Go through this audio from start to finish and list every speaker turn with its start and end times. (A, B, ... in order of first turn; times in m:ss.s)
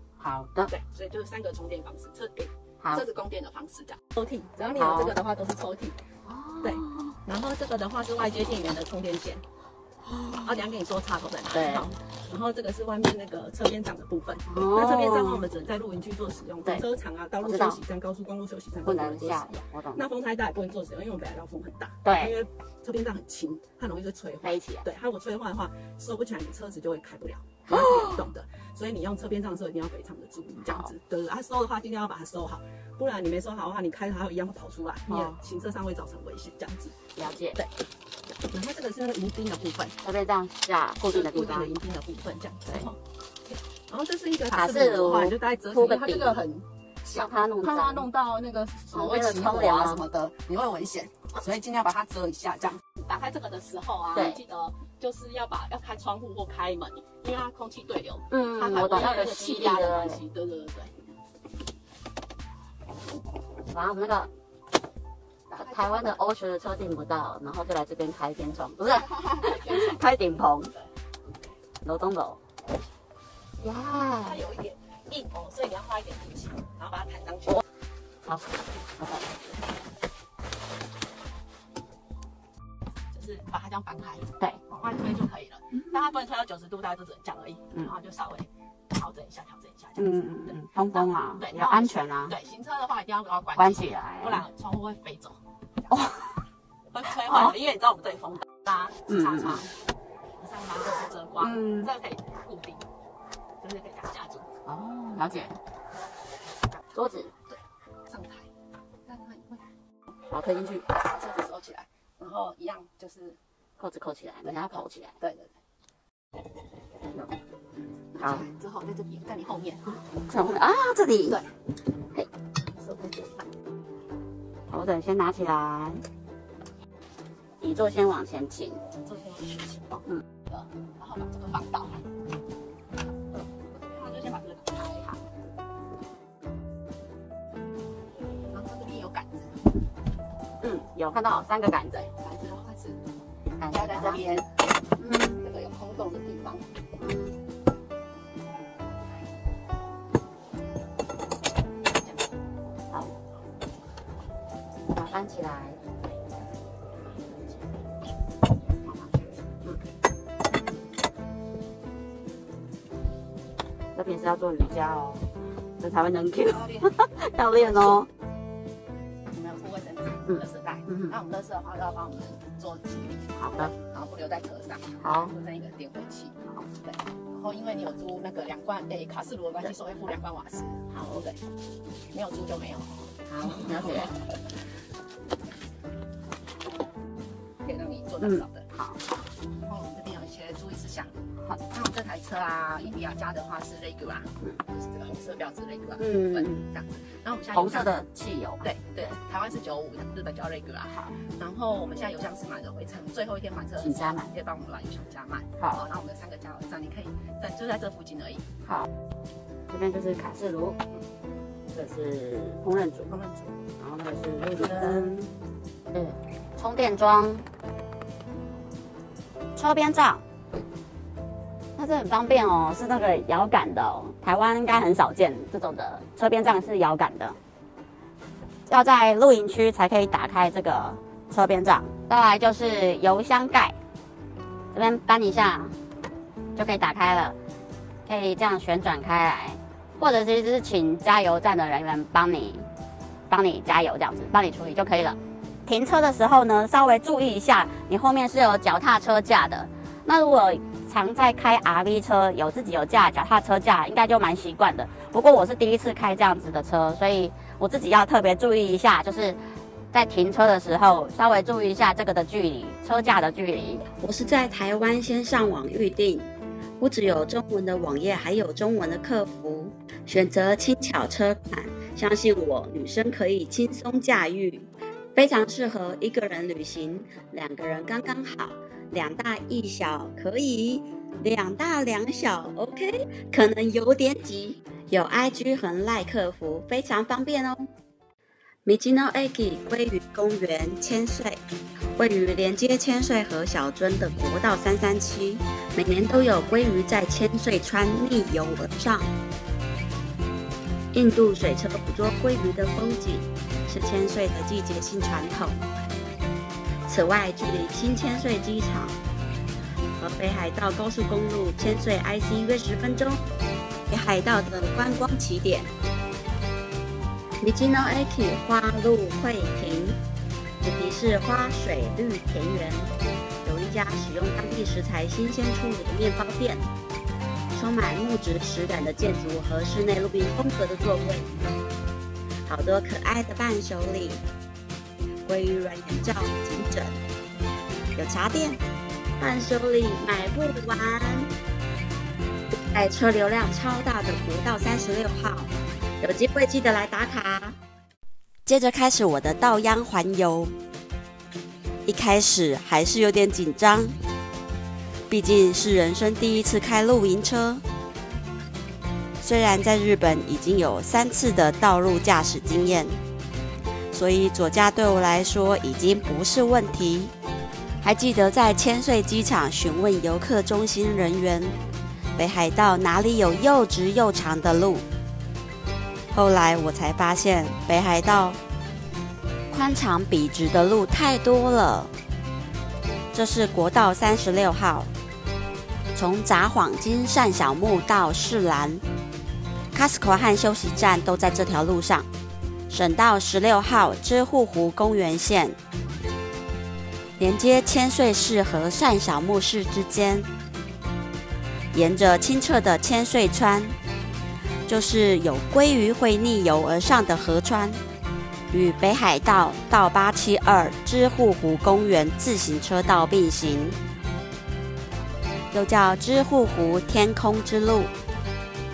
0:00.2-0:00.7 A
0:00.7-0:06.0 B
0:04.8-0:05.1 A
0:06.3-0:07.2 A
0:06.6-0:09.4 B
0:10.0-0:10.6 A
0:10.4-0:37.0 B
0:11.5-0:12.0 A
0:14.5-0:15.4 A
0:17.4-0:17.8 A
0:18.8-0:20.1 A
0:22.0-0:22.4 A
0:24.4-0:24.9 A
0:27.7-0:28.3 A
0:30.5-0:30.9 A
0:35.1-0:35.4 A
0:37.2-0:37.6 A
0:38.4-0:40.0 B
0:40.0-0:41.7 A
0:41.0-0:43.0 B
0:43.9-1:00.9 B
0:44.5-0:46.4 A
0:47.0-0:48.1 A
0:48.9-0:50.0 A
0:54.1-0:54.4 A
0:58.3-1:00.2 A
1:03.7-1:04.3 A
1:05.5-1:10.7 A
1:05.5-1:06.2 B
1:08.8-1:10.0 B
1:11.8-1:12.4 A
1:13.6-1:14.4 A
1:14.2-1:17.6 B
1:18.2-1:19.3 A
1:23.1-1:35.4 B
1:30.0-1:32.4 A
1:33.6-1:34.5 A
1:35.9-1:36.4 A
1:36.9-1:39.7 B
1:37.3-1:37.5 A
1:39.1-1:39.7 A
1:40.4-1:42.8 B
1:41.4-1:41.9 A
1:43.6-1:44.5 B
1:44.6-1:45.6 A
1:46.9-1:47.3 A
1:47.5-1:48.5 B
1:49.1-1:49.6 B
1:50.3-1:51.0 A
1:51.0-1:53.4 B
1:53.8-1:55.2 A
1:54.4-1:55.6 B
1:58.2-1:59.9 B
1:58.2-1:58.5 A
1:59.9-2:01.4 A
2:02.8-2:03.5 B
2:04.7-2:06.0 A
2:07.6-2:08.8 A
2:09.0-2:12.0 B
2:13.7-2:15.2 B
2:18.5-2:19.6 B
2:20.6-2:22.1 A
2:22.1-2:23.0 B
2:23.6-2:24.3 A
2:23.7-2:24.5 B
2:25.0-2:25.4 A
2:25.4-2:26.7 B
2:27.0-2:27.4 A
2:31.9-2:32.2 B
2:34.8-2:35.8 A
2:38.8-2:39.4 B
2:44.0-2:45.3 A
2:45.8-2:48.1 A
2:46.5-2:47.0 B
2:47.5-2:48.0 B
2:49.3-3:01.4 B
2:50.3-2:51.2 A
2:53.4-2:53.8 A
2:55.0-2:55.3 A
3:00.9-3:01.2 A
3:02.1-3:04.3 B
3:03.3-3:04.1 A
3:07.6-3:08.6 B
3:08.2-3:09.0 A
3:09.6-3:18.0 B
3:16.0-3:16.7 A
3:17.5-3:18.7 A
3:18.6-3:28.5 B
3:20.9-3:21.2 A
3:23.8-3:24.3 A
3:28.6-3:28.9 A
3:29.7-3:30.8 A
3:31.7-3:33.1 A
3:33.1-3:33.6 B
3:33.8-3:35.3 A
3:34.5-3:35.1 B
3:35.9-3:37.4 A
3:39.6-3:40.2 A
3:41.8-3:47.4 A
3:48.7-3:53.8 A
3:54.7-3:55.7 A
3:56.6-3:57.4 A
3:58.1-4:02.7 A
4:03.3-4:19.4 A
4:19.9-4:23.9 A
4:23.9-4:26.3 C
4:26.8-4:47.7 C
4:48.6-4:51.4 C
4:52.0-4:59.1 C
5:00.9-5:05.6 C
5:06.9-5:09.0 C
5:10.0-5:13.3 C
5:13.9-5:15.7 C
5:17.4-5:20.0 C
5:20.6-5:22.9 C
5:23.4-5:26.6 C
5:27.5-5:31.5 C
5:32.5-5:34.2 C
5:35.2-5:37.0 C
5:38.0-5:38.6 C
5:39.2-5:41.3 C
5:42.5-5:47.6 C
5:48.5-5:50.5 C
5:51.9-5:54.0 C
5:55.1-5:57.6 C
5:59.2-6:03.0 C
6:03.9-6:07.1 C
6:07.8-6:11.6 C
6:12.2-6:14.9 C
6:16.1-6:18.4 C
6:19.5-6:21.9 C
6:23.1-6:24.9 C
6:25.9-6:28.8 C
6:29.7-6:32.1 C
6:32.7-6:35.6 C
6:37.2-6:40.3 C
6:41.7-6:43.8 C
6:44.7-6:47.8 C
6:48.5-6:53.8 C
6:55.5-6:57.9 C